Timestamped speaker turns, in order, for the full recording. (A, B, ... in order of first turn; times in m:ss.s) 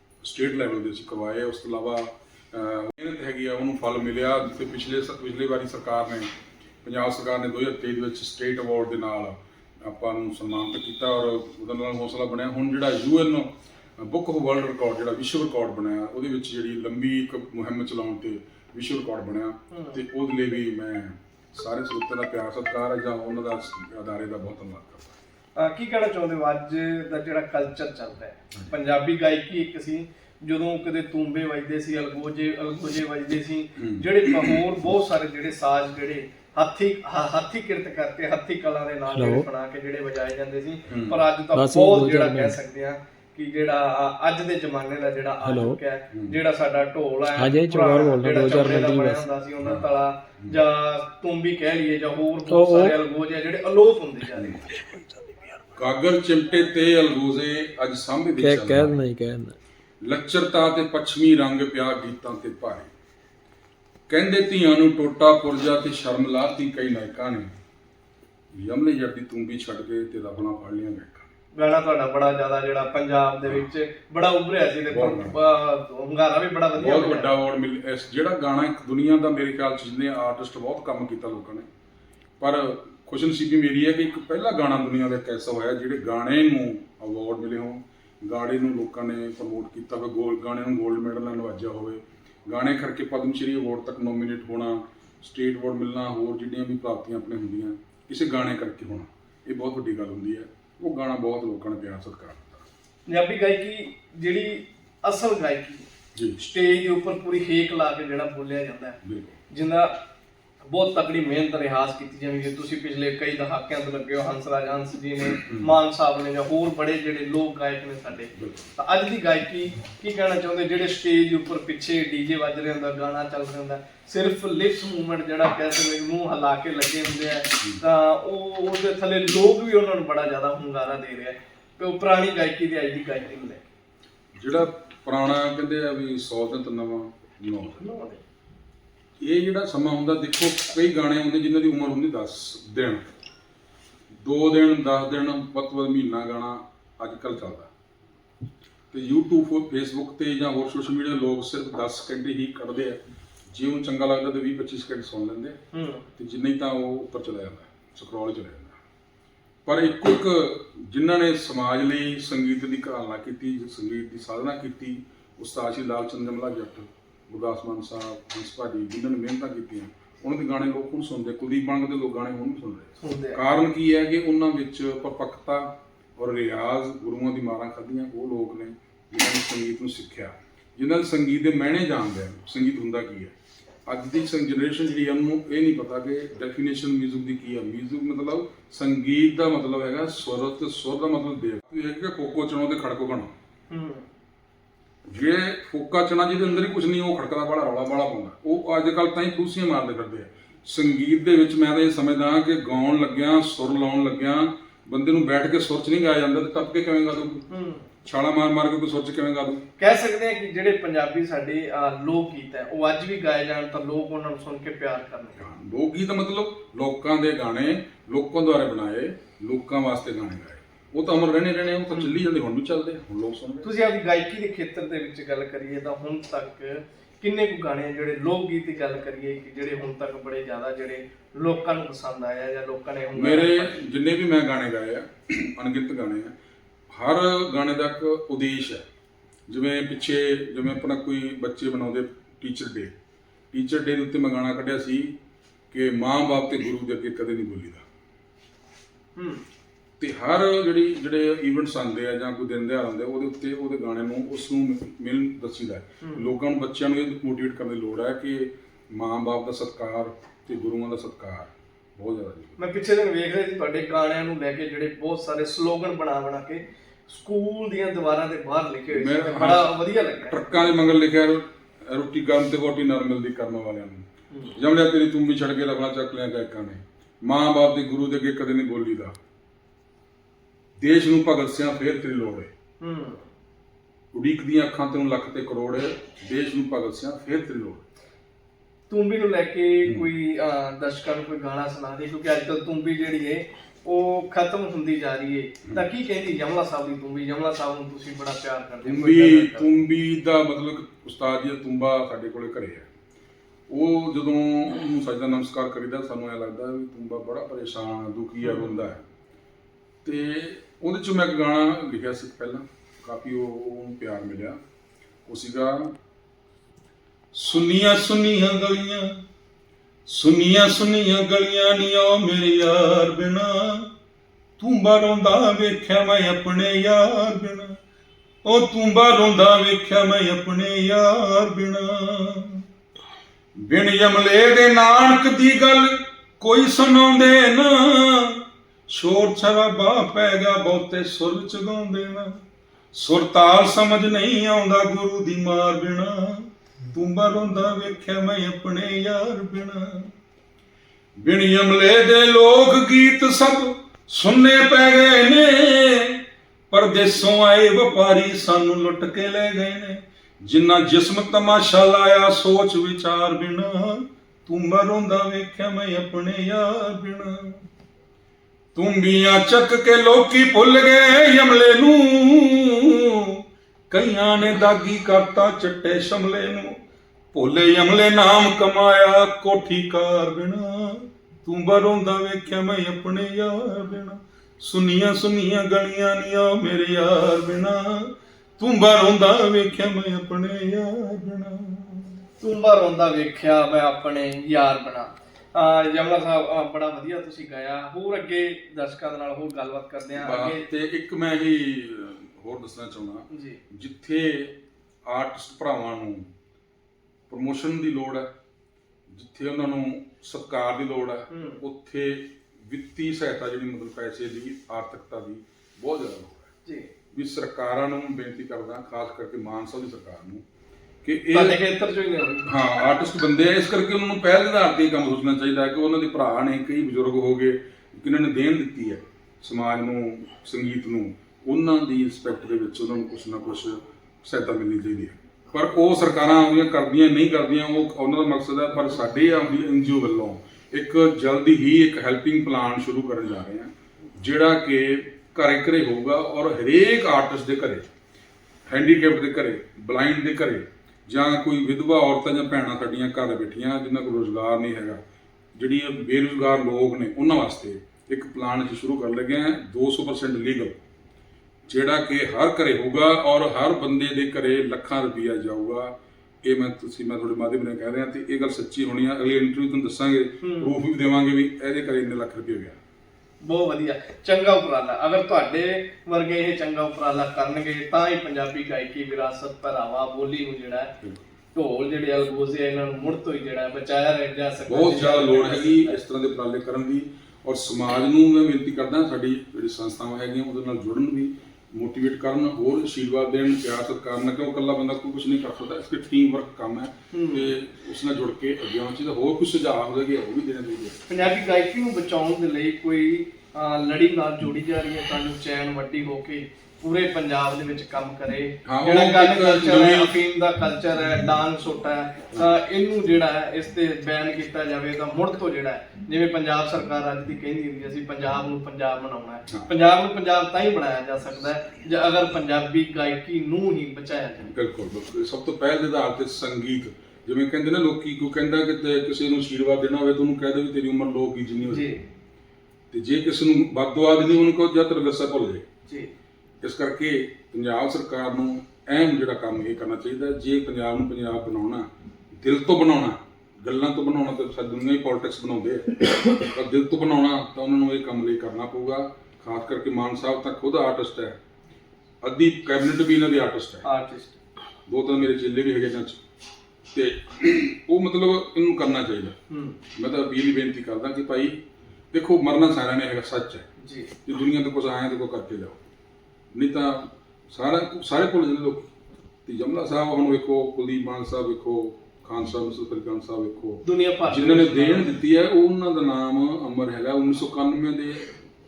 0:00.2-0:06.3 A
0:06.8-0:25.2 A
0:19.7-0:20.0 B
0:25.6-0:54.6 B
0:33.8-0:34.6 A
0:39.1-0:39.4 C
0:40.9-0:41.2 A
0:41.5-0:42.6 C
0:45.4-0:45.8 C
0:47.4-0:49.3 C
0:49.6-0:50.6 A
0:52.5-0:53.0 C
0:54.8-0:55.4 C
0:55.8-0:59.0 A
0:58.4-0:59.6 C
1:00.0-1:02.9 A
1:04.1-1:07.5 A
1:08.6-1:11.2 A
1:11.6-1:17.3 B
1:14.9-1:15.4 A
1:16.8-1:21.6 A
1:22.4-1:42.6 A
1:43.1-1:45.9 B
1:46.1-1:46.5 A
1:46.5-1:49.0 B
1:49.0-1:49.3 A
1:49.5-1:49.9 B
1:50.7-2:13.6 B
1:55.4-1:55.7 A
1:58.4-1:58.7 A
2:14.4-2:17.8 A
2:17.7-2:18.2 B
2:19.2-2:23.0 A
2:24.2-2:27.7 A
2:28.9-2:33.0 A
2:33.5-2:35.6 A
2:35.7-2:36.1 B
2:36.2-2:38.8 A
2:39.6-3:03.3 A
2:53.0-2:53.4 B
3:03.9-3:13.3 A
3:13.7-3:14.0 B
3:15.1-3:27.5 A
3:27.5-3:27.8 B
3:28.0-3:29.6 A
3:29.8-3:35.5 B
3:35.4-3:43.7 A
3:43.6-3:53.7 B
3:53.1-3:56.3 A
3:56.9-3:58.8 A
3:59.5-4:02.9 A
4:03.5-4:05.1 A
4:05.7-4:07.8 A
4:09.2-4:09.4 B
4:10.0-4:22.6 A
4:16.0-4:16.3 B
4:22.6-4:30.8 B
4:28.9-4:39.1 A
4:40.8-4:42.5 A
4:42.8-4:43.3 B
4:44.1-4:47.8 A
4:48.9-4:59.7 B
4:58.8-5:02.9 A
5:03.7-5:09.0 A
5:08.4-5:08.8 B
5:10.0-5:14.6 A
5:15.3-5:15.9 A
5:17.3-5:19.2 A
5:20.1-5:23.9 A
5:24.6-5:27.8 A
5:28.4-5:32.6 A
5:33.6-5:42.3 A
5:42.9-5:50.1 A
5:51.2-6:07.6 A
6:08.7-6:16.7 A
6:17.3-6:32.2 A
6:32.4-6:40.6 B
6:40.2-6:44.6 A
6:43.3-6:43.6 B
6:45.1-6:46.3 A
6:47.3-6:48.3 A
6:49.1-6:56.5 A
6:51.3-6:51.6 B
6:56.6-6:56.9 B
6:57.1-7:00.4 A
7:01.0-7:01.6 A
7:01.3-7:02.5 B
7:02.4-7:27.9 A
7:28.7-7:35.0 A
7:35.6-7:40.8 A
7:41.7-7:52.8 A
7:50.4-7:50.7 B
7:53.4-8:00.9 B
8:01.5-8:06.0 B
8:04.6-8:21.0 A
8:17.1-8:17.5 B
8:21.1-8:44.5 B
8:28.6-8:30.1 A
8:44.5-8:51.8 A
8:51.6-8:52.0 B
8:52.9-8:55.6 A
8:55.9-8:56.1 B
8:56.6-9:01.8 A
9:02.4-9:11.4 A
9:12.2-9:13.8 A
9:13.8-9:14.4 B
9:14.9-9:16.2 A
9:16.9-9:19.4 A
9:19.5-9:19.8 B
9:20.0-9:23.6 A
9:23.8-9:24.1 B
9:24.2-9:25.8 A
9:26.5-9:28.9 A
9:29.4-9:38.3 A
9:33.8-9:35.1 B